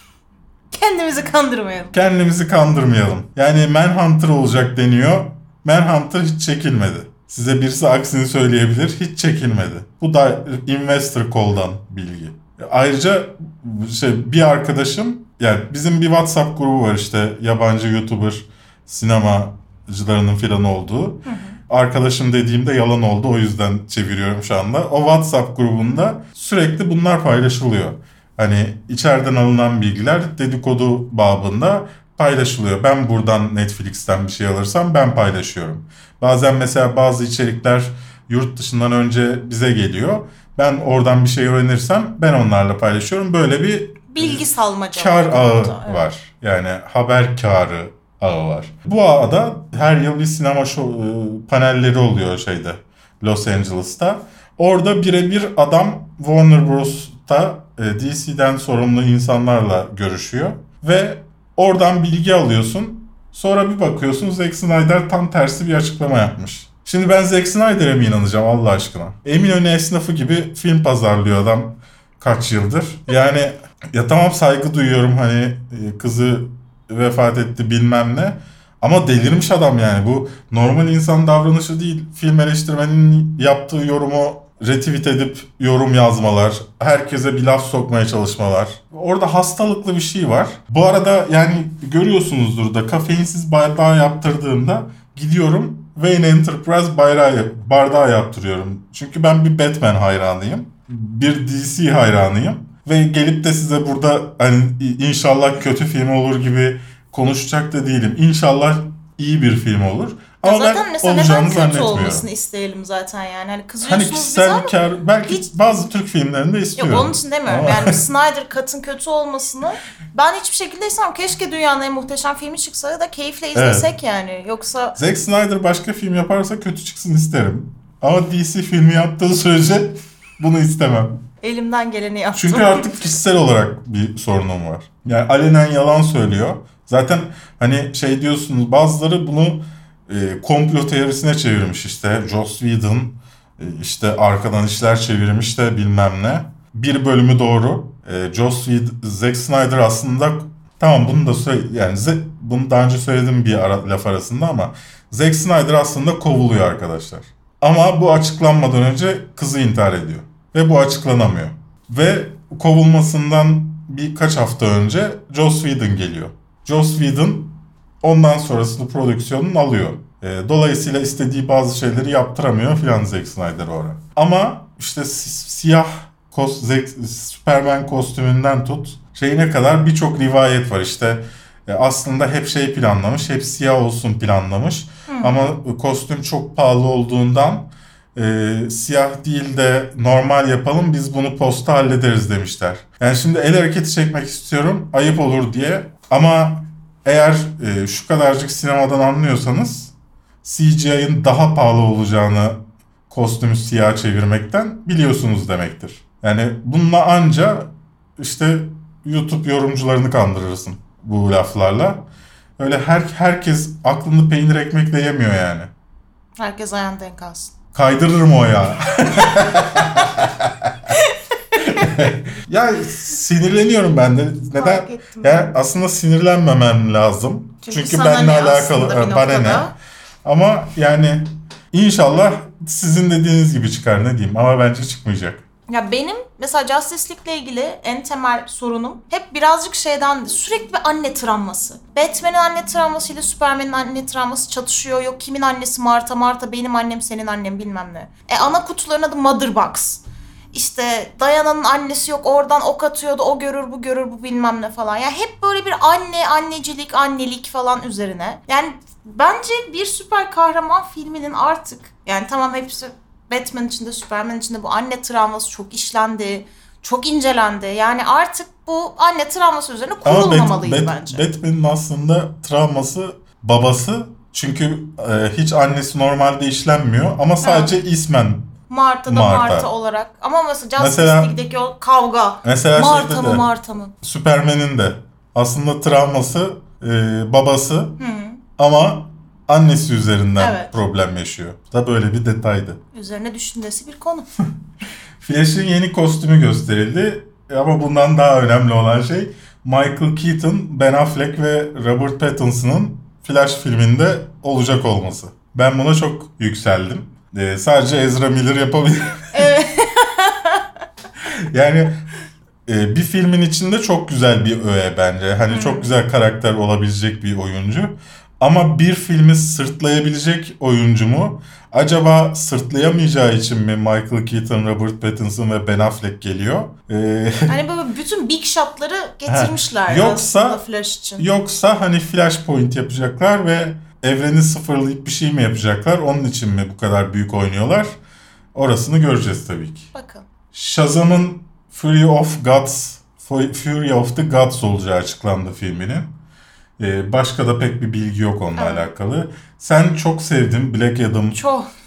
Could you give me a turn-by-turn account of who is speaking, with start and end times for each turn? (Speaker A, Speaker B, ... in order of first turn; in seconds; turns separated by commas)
Speaker A: 0.7-1.9, Speaker B: 1.9-112.3, Speaker A: 21.3-21.6, Speaker A: 44.1-46.1, Speaker A: 110.4-115.5, Speaker B: 113.8-118.0, Speaker A: 116.8-125.0, Speaker B: 123.5-123.9, Speaker B: 125.0-131.2, Speaker A: 131.4-133.0, Speaker B: 132.3-212.1, Speaker A: 185.1-185.4, Speaker B: 212.6-215.7, Speaker A: 216.4-217.5, Speaker B: 217.7-220.9, Speaker B: 221.6-229.7, Speaker A: 224.6-225.5, Speaker A: 227.6-229.7, Speaker B: 230.2-235.4, Speaker A: 235.7-271.2, Speaker B: 270.0-278.6, Speaker A: 277.4-277.7, Speaker A: 278.7-283.9, Speaker B: 279.1-279.7, Speaker B: 280.8-281.3, Speaker B: 282.4-283.5, Speaker B: 284.0-288.0, Speaker A: 288.0-288.4, Speaker B: 288.6-292.8, Speaker A: 290.4-290.7, Speaker A: 292.9-294.3, Speaker B: 295.2-309.5, Speaker A: 309.3-310.6, Speaker B: 311.3-312.1, Speaker B: 312.7-327.6, Speaker A: 315.5-315.9, Speaker A: 327.5-331.2, Speaker B: 329.3-330.6, Speaker B: 331.2-338.0, Speaker B: 338.6-339.9, Speaker A: 339.9-340.3, Speaker B: 340.5-346.2, Speaker B: 346.8-351.4, Speaker A: 348.6-348.9, Speaker A: 351.4-351.7